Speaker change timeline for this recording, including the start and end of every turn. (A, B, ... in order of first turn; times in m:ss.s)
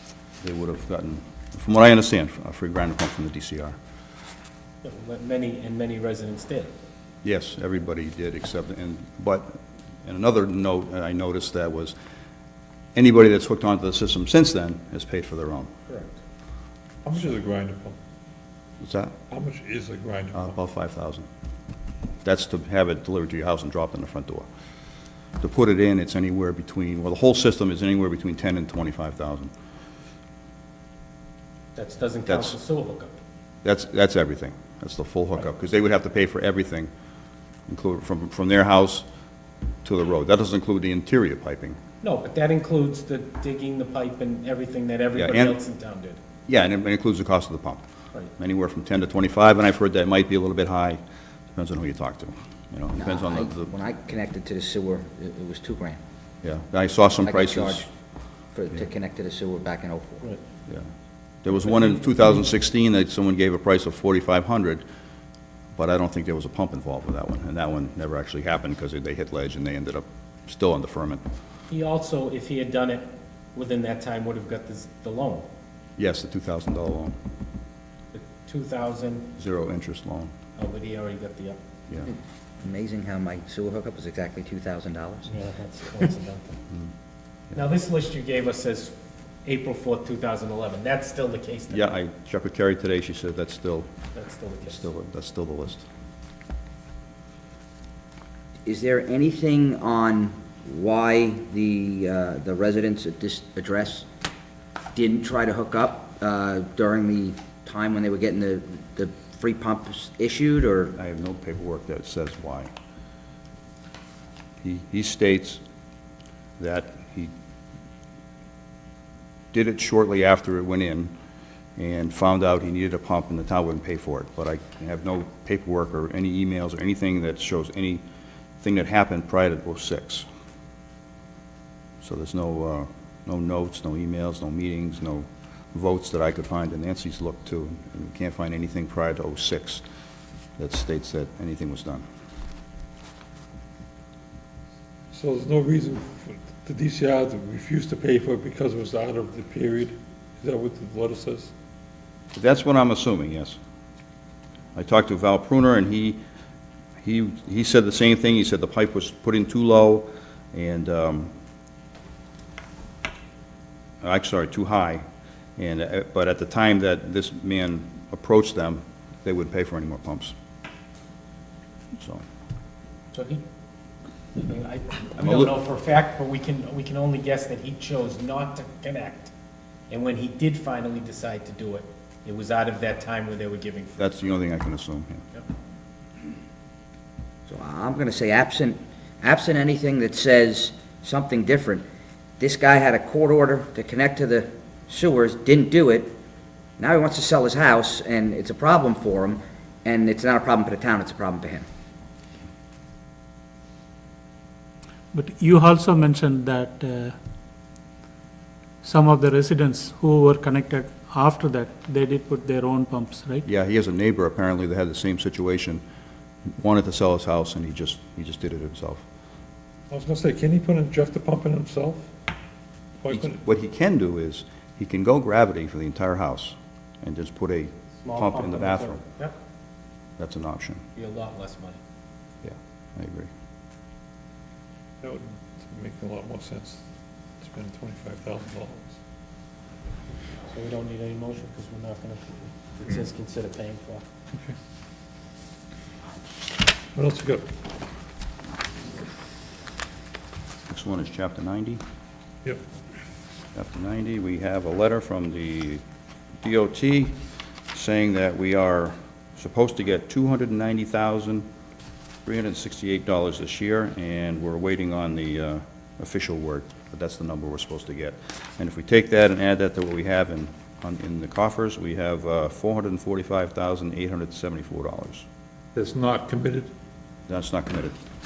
0:00.4-0:03.8 A
0:04.8-0:06.7 B
0:07.2-0:11.9 A
0:12.9-0:15.7 A
0:15.9-0:16.2 B
0:17.0-0:18.0 C
0:18.8-0:19.1 A
0:19.3-0:20.6 C
0:20.3-0:21.2 A
0:22.2-0:24.5 A
0:25.4-0:29.5 A
0:31.8-0:33.1 B
0:32.3-0:32.6 A
0:33.6-0:36.9 A
0:37.7-0:39.0 A
0:39.8-0:41.8 A
0:42.0-0:46.2 B
0:45.2-0:45.6 A
0:46.5-0:47.8 A
0:48.4-0:51.0 A
0:51.5-0:53.7 A
0:53.0-0:56.0 D
0:56.4-0:57.9 A
0:57.2-0:57.9 D
0:58.5-1:00.2 D
1:01.4-1:04.8 A
1:05.8-1:11.2 A
1:11.7-1:15.5 B
1:16.0-1:17.1 A
1:18.1-1:19.3 B
1:19.4-1:20.3 A
1:20.6-1:21.6 B
1:22.0-1:25.3 D
1:25.3-1:26.6 B
1:27.5-1:31.9 B
1:31.7-1:33.9 A
1:34.1-1:34.9 B
1:34.7-1:35.8 A
1:38.6-1:44.0 D
1:44.9-1:50.9 D
1:51.0-1:52.7 A
1:54.6-1:55.6 A
1:56.6-1:57.3 A
1:59.5-2:01.1 A
2:01.8-2:08.0 A
2:08.6-2:10.3 A
2:12.0-2:19.8 A
2:20.6-2:22.0 A
2:25.1-2:31.5 C
2:32.3-2:33.6 A
2:34.8-2:36.2 A
2:37.0-2:41.3 A
2:44.0-2:45.0 A
2:45.6-2:50.3 A
2:52.0-2:52.2 A
2:53.1-2:53.4 B
2:54.4-2:59.3 B
2:55.2-2:55.5 A
2:59.9-3:04.0 B
3:04.0-3:05.2 A
3:07.5-3:11.8 D
3:12.4-3:16.1 D
3:16.8-3:21.6 D
3:25.1-3:27.1 E
3:28.8-3:33.4 E
3:33.4-3:35.8 A
3:36.6-3:39.0 A
3:39.9-3:42.1 C
3:43.0-3:43.4 C
3:43.1-3:49.0 A
3:48.0-3:49.3 B
3:50.2-3:50.8 A
3:51.0-3:51.8 B
3:52.4-3:53.3 A
3:55.0-3:56.8 C
3:57.4-3:59.0 C
4:00.5-4:04.0 B
4:06.9-4:07.5 C
4:10.7-4:11.8 A
4:13.5-4:15.8 A
4:16.4-4:17.1 A
4:17.7-4:21.4 A
4:22.2-4:35.2 A
4:35.7-4:36.7 C
4:37.3-4:38.0 A